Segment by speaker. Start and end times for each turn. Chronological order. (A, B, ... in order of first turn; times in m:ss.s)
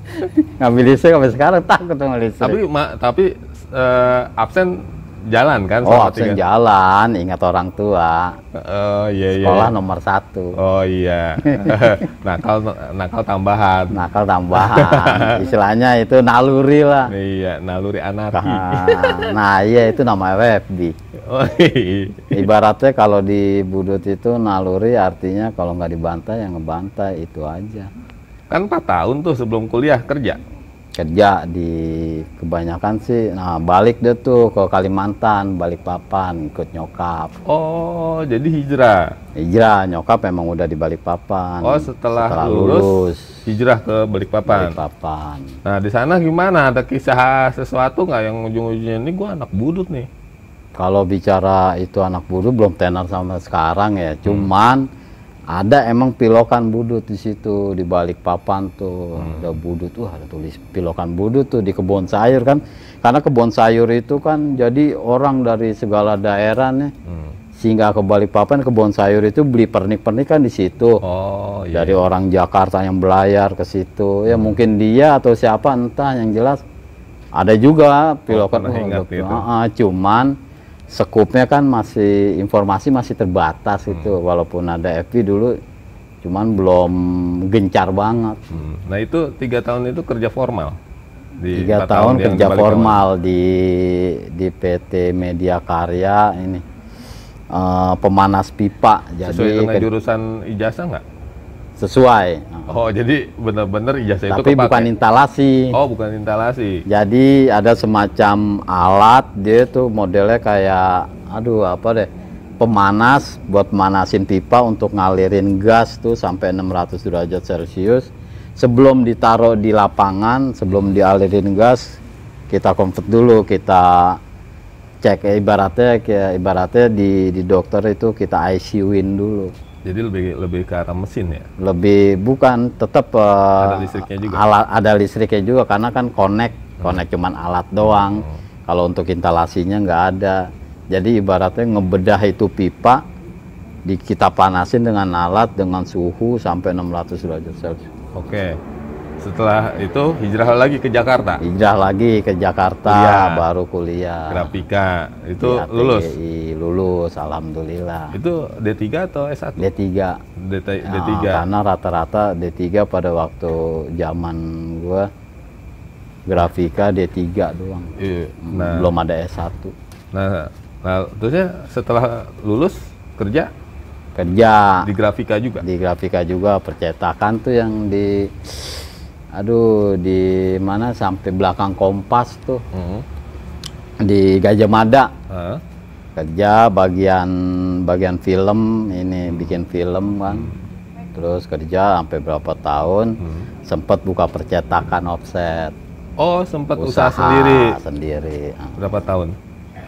0:00.2-0:02.6 A
0:02.4-0:06.4 B
0:05.8-0:08.4 A
0:08.5-0:09.7 B
0:09.4-0:10.6 A
0:10.6-0:15.5 B
0:11.4-0:12.0 A
0:13.9-0:17.1 A
0:17.0-0:19.3 B
0:18.3-0:20.9 A
0:21.2-0:22.5 B
0:22.3-0:27.9 A
0:28.5-0:30.4 B
0:30.9-0:37.4 A
0:37.4-0:39.1 B
0:39.4-0:43.4 A
0:41.6-0:44.8 B
0:44.5-0:45.5 A
0:45.6-0:50.1 B
0:50.8-0:54.8 A
0:55.5-1:06.9 A
0:59.2-0:59.6 B
1:07.0-1:07.3 B
1:07.6-1:11.0 A
1:11.0-1:12.0 B
1:11.7-1:16.6 A
1:14.3-1:14.6 B
1:17.4-1:20.3 A
1:18.3-1:19.4 B
1:20.9-1:25.6 A
1:23.9-1:24.1 B
1:26.2-1:28.6 A
1:28.5-1:30.8 B
1:31.4-1:33.0 B
1:31.5-1:36.6 A
1:37.5-1:39.9 A
1:39.2-1:41.0 B
1:41.8-1:42.8 A
1:42.7-1:44.9 B
1:44.3-1:45.8 A
1:45.7-1:46.8 B
1:46.9-1:52.1 A
1:52.6-2:02.0 A
2:02.5-2:04.2 A
2:05.0-2:09.5 A
2:09.8-2:11.5 B
2:11.6-2:23.0 A
2:13.6-2:14.4 B
2:17.8-2:18.4 B
2:23.8-2:27.8 A
2:28.1-2:28.6 B
2:29.2-2:31.4 B
2:31.4-2:34.6 A
2:32.8-2:33.4 B
2:34.3-2:36.1 B
2:35.4-2:38.2 A
2:38.1-2:39.6 B
2:39.6-2:40.2 A
2:40.4-2:41.5 B
2:40.8-2:45.1 A
2:46.3-2:49.7 A
2:48.0-2:48.9 B
2:50.1-2:53.5 B
2:54.2-2:54.9 A
2:54.8-2:55.6 B
2:55.6-3:02.6 A
3:02.7-3:03.0 B
3:04.0-3:05.1 A
3:05.3-3:05.6 B
3:06.2-3:10.5 A
3:09.3-3:09.5 B
3:10.3-3:10.6 B
3:11.1-3:15.7 A
3:13.2-3:13.5 B
3:16.2-3:17.8 B
3:16.8-3:18.9 A
3:18.8-3:19.4 B